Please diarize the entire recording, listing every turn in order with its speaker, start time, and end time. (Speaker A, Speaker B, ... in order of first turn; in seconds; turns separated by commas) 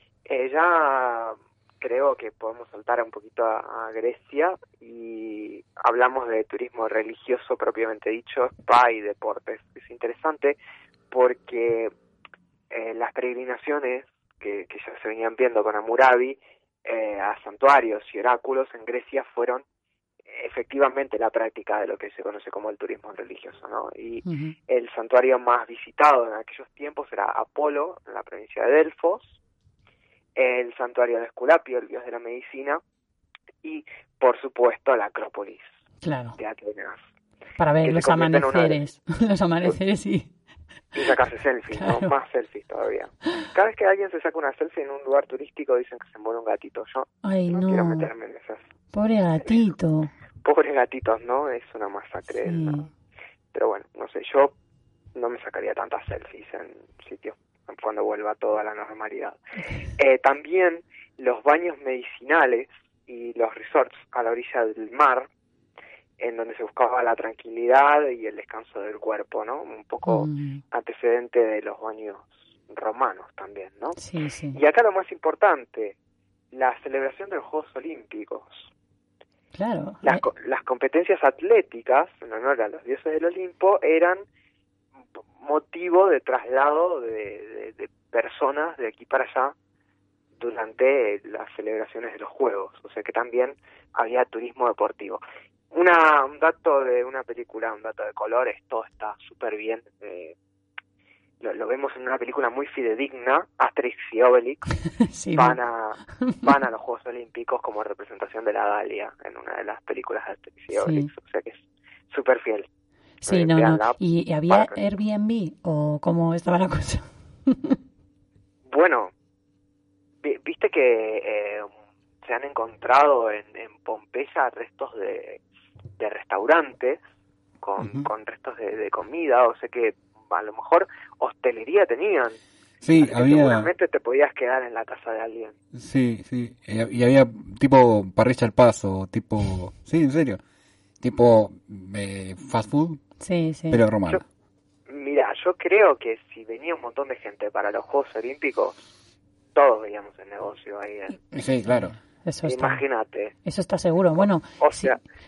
Speaker A: 0.2-10.6, Speaker A: 11.1-11.9, Speaker A: 12.7-19.6, Speaker A: 20.3-29.4, Speaker B: 24.2-24.6, Speaker A: 30.4-32.8, Speaker A: 33.6-35.6, Speaker B: 36.0-36.4, Speaker A: 36.4-37.0, Speaker B: 37.6-40.3, Speaker A: 37.8-38.8, Speaker A: 40.9-48.6, Speaker B: 41.7-42.1, Speaker B: 47.2-48.1, Speaker B: 48.9-50.1, Speaker A: 50.4-52.8, Speaker B: 52.5-52.9, Speaker A: 53.5-54.5, Speaker A: 55.1-59.4, Speaker A: 60.0-65.3, Speaker A: 66.2-74.0, Speaker B: 70.0-70.6, Speaker B: 74.0-74.6, Speaker A: 74.5-75.9, Speaker A: 76.5-78.7, Speaker B: 79.5-80.2, Speaker A: 80.0-84.2, Speaker A: 85.4-89.5, Speaker A: 90.4-100.3, Speaker A: 101.4-104.6, Speaker B: 105.0-105.6, Speaker A: 105.3-112.7, Speaker B: 110.7-111.1, Speaker B: 113.2-117.8, Speaker A: 113.3-114.8, Speaker A: 118.7-119.1, Speaker A: 120.2-121.7, Speaker A: 122.2-125.4, Speaker A: 126.0-127.0, Speaker A: 127.6-132.3, Speaker C: 127.8-128.1, Speaker C: 132.8-133.7, Speaker A: 133.0-135.5, Speaker C: 135.7-140.4, Speaker C: 141.0-143.0, Speaker B: 143.2-143.8, Speaker C: 143.7-144.2, Speaker A: 144.9-148.8, Speaker A: 149.5-151.2, Speaker C: 151.3-152.0, Speaker B: 151.7-152.8, Speaker A: 152.4-153.3, Speaker B: 153.4-154.9, Speaker A: 154.6-155.0